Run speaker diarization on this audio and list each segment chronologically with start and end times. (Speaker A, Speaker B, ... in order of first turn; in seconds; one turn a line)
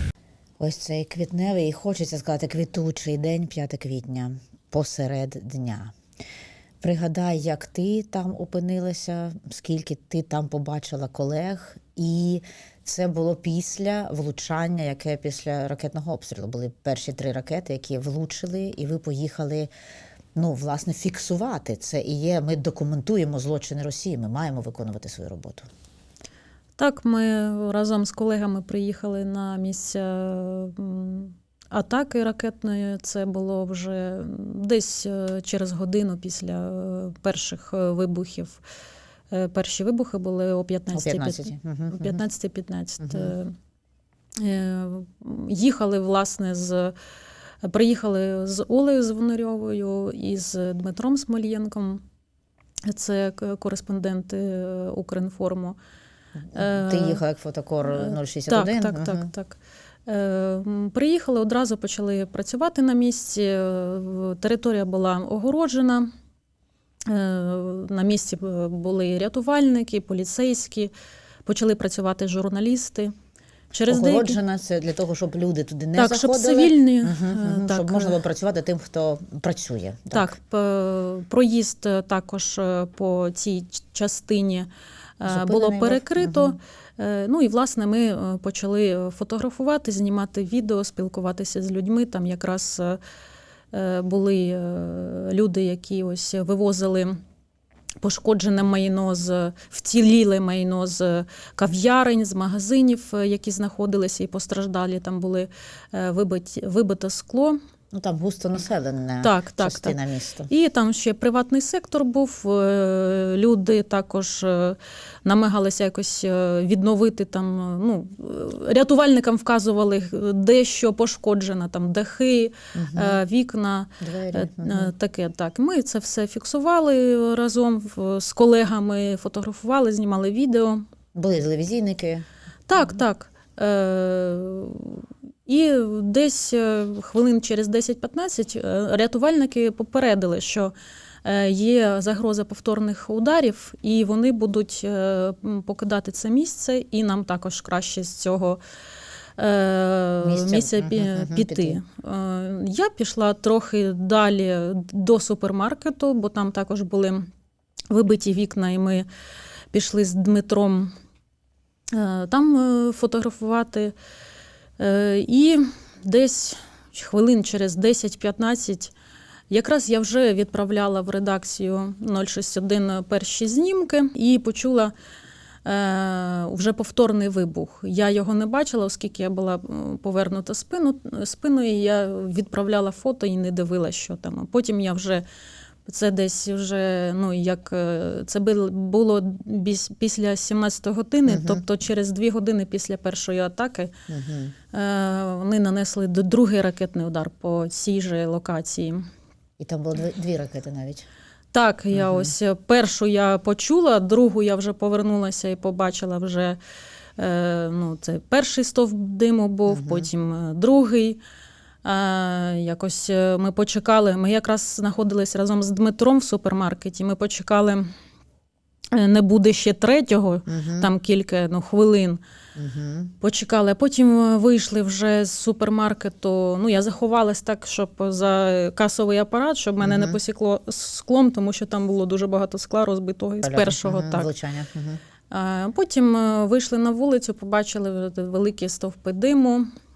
Speaker A: 0.6-5.9
Speaker A: 6.8-19.7
Speaker A: 20.4-25.7
Speaker B: 26.8-38.6
Speaker B: 39.3-43.5
Speaker A: 40.9-42.2
Speaker A: 43.0-43.3
Speaker B: 44.4-46.9
Speaker B: 47.6-52.0
Speaker B: 52.9-55.8
Speaker A: 56.5-59.3
Speaker B: 56.5-57.2
Speaker B: 57.9-66.1
Speaker B: 67.0-70.9
Speaker B: 71.4-73.1
Speaker B: 73.7-74.4
Speaker A: 73.9-80.3
Speaker B: 76.0-78.2
Speaker B: 80.1-84.7
Speaker B: 85.2-93.0
Speaker A: 85.2-86.6
Speaker B: 93.7-97.2
Speaker B: 98.0-107.6
Speaker A: 107.9-110.5
Speaker B: 109.2-130.8
Speaker A: 122.7-123.2
Speaker A: 124.0-124.9
Speaker A: 131.1-132.2
Speaker B: 132.7-140.7
Speaker B: 141.2-148.6
Speaker B: 149.4-157.3
Speaker A: 150.2-151.8
Speaker B: 157.9-159.1
Speaker B: 159.7-160.9
Speaker B: 161.9-163.9
Speaker B: 164.8-168.9
Speaker B: 169.5-174.9
Speaker B: 175.6-185.2
Speaker B: 185.8-193.9
Speaker A: 191.3-191.6
Speaker A: 194.1-194.5
Speaker B: 194.7-199.0
Speaker A: 199.6-201.1
Speaker B: 201.5-206.6
Speaker A: 201.9-202.3
Speaker B: 207.2-211.2
Speaker A: 209.7-210.1
Speaker B: 211.8-217.9
Speaker B: 218.9-222.2
Speaker A: 220.5-220.9
Speaker A: 222.6-223.1
Speaker B: 223.2-234.3
Speaker A: 229.8-230.2
Speaker A: 233.4-235.0
Speaker B: 235.3-239.7